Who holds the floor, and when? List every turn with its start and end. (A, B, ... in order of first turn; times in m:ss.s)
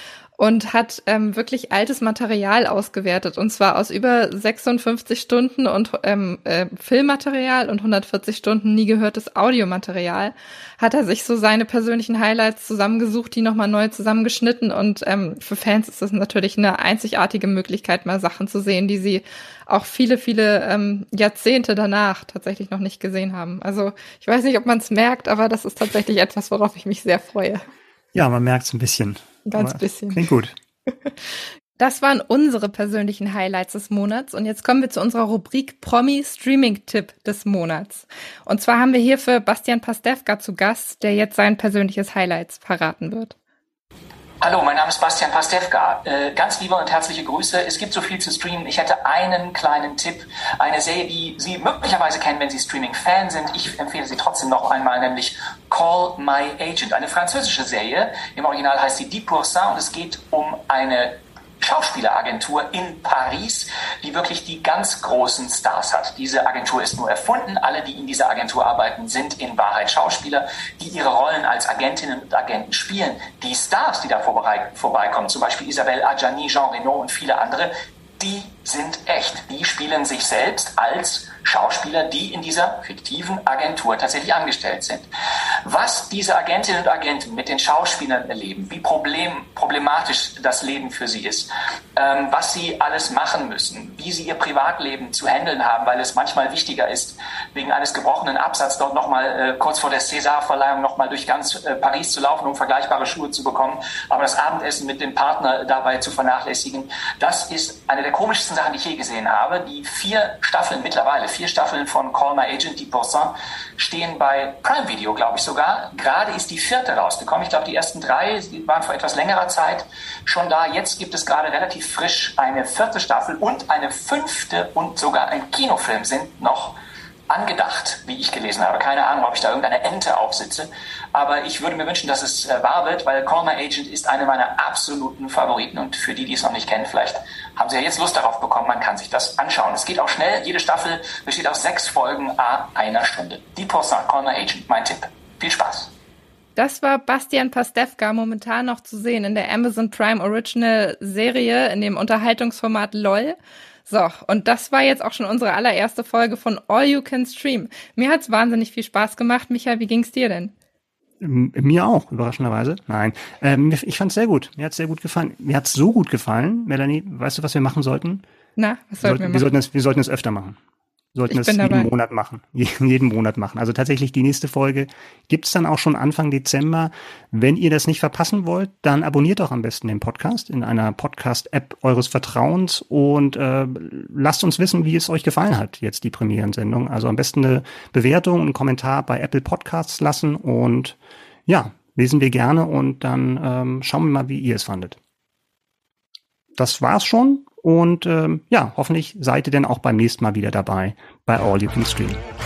0:00.4-0:27.6 A
0:28.1-0:30.5 B
0:29.5-0:30.2 A
0:31.8-0:43.4 A
0:44.4-1:25.1 C
1:25.6-2:06.8 C
2:07.3-2:25.9 C
2:26.6-2:40.5 A
2:41.2-2:48.2 B
2:48.6-2:49.5 A
2:49.0-2:50.6 B
2:51.2-3:15.0 B
2:51.3-2:51.9 A
3:16.6-3:22.2 B